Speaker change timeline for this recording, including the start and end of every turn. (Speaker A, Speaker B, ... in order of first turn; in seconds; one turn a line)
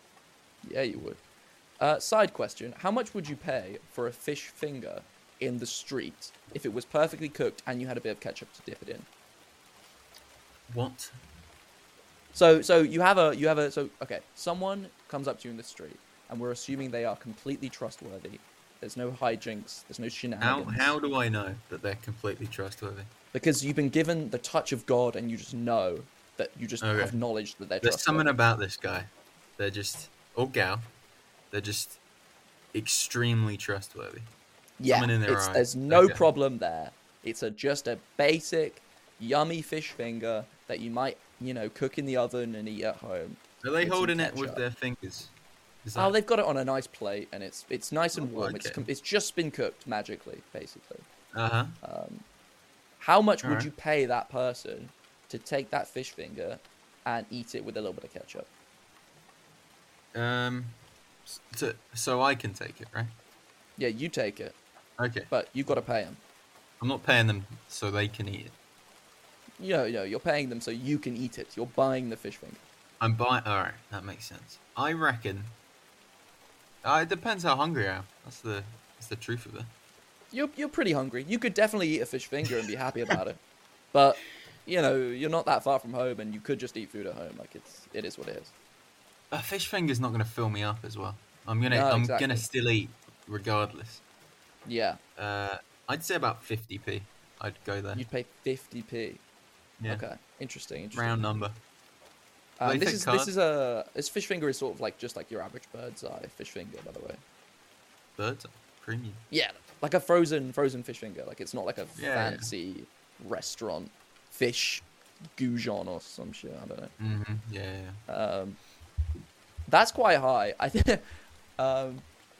Speaker A: 0.6-1.2
Speaker A: 1.8-9.1
Speaker B: 10.7-11.1
Speaker A: 12.3-20.9
Speaker B: 20.4-23.1
Speaker A: 23.3-28.3
Speaker B: 26.8-27.2
Speaker B: 27.8-30.9
Speaker B: 31.5-32.0
Speaker B: 32.7-34.3
Speaker A: 34.8-44.6
Speaker B: 34.9-36.2
Speaker B: 43.6-45.3
Speaker B: 45.8-46.1
Speaker A: 46.0-51.1
Speaker B: 48.1-48.9
Speaker B: 51.3-51.8
Speaker A: 51.8-52.3
Speaker A: 53.0-58.5
Speaker B: 53.4-53.7
Speaker B: 60.1-63.1
Speaker A: 63.8-64.6
Speaker B: 65.0-65.3
Speaker A: 65.3-66.2
Speaker B: 66.8-68.5
Speaker A: 69.6-72.6
Speaker B: 73.0-75.6
Speaker B: 76.8-79.7
Speaker A: 80.3-83.4
Speaker A: 83.9-88.5
Speaker B: 89.3-94.0
Speaker A: 91.7-92.5
Speaker A: 94.7-95.0
Speaker B: 95.2-98.0
Speaker A: 97.9-99.2
Speaker B: 99.8-100.0
Speaker A: 99.9-101.3
Speaker B: 100.9-101.6
Speaker A: 102.6-107.2
Speaker B: 102.6-103.3
Speaker B: 108.2-109.2
Speaker A: 109.3-114.9
Speaker B: 112.0-112.5
Speaker A: 115.4-116.9
Speaker B: 117.0-118.0
Speaker A: 118.1-118.6
Speaker A: 119.7-121.1
Speaker A: 121.6-122.1